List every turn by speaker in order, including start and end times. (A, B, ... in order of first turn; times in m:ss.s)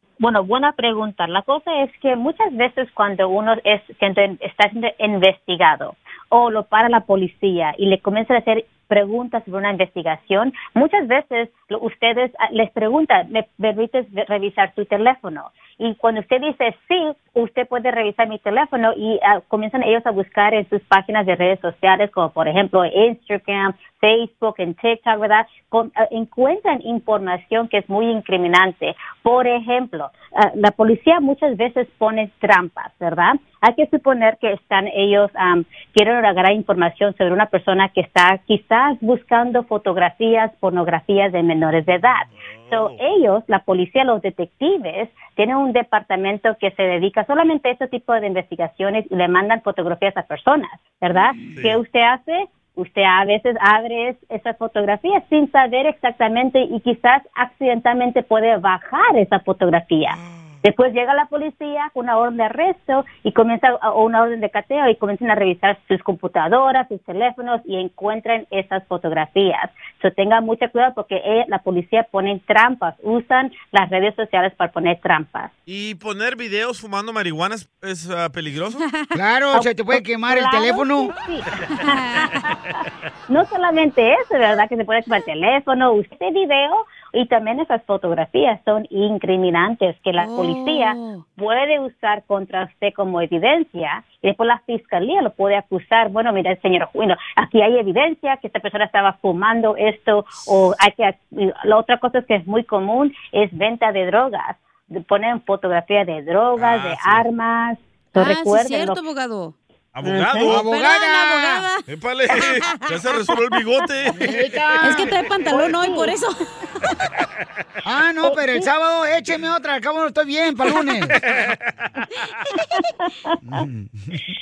0:00.2-1:15.5 A
0:42.4-0:43.0 B
1:15.7-1:18.8 B
1:19.1-1:21.1 C
1:19.5-1:22.5 A
1:22.0-1:22.4 D
1:23.3-1:49.0 A
1:30.2-1:31.2 D
1:46.6-1:47.2 B
1:48.2-1:49.5 D
1:49.9-1:50.6 B
1:50.0-1:51.8 D
1:50.4-1:51.6 C
1:51.9-1:54.2 B
1:54.2-1:55.1 C
1:54.8-1:56.3 D
1:55.5-1:56.1 A
1:57.8-2:01.2 C
1:58.2-1:58.6 A
2:01.4-2:01.8 B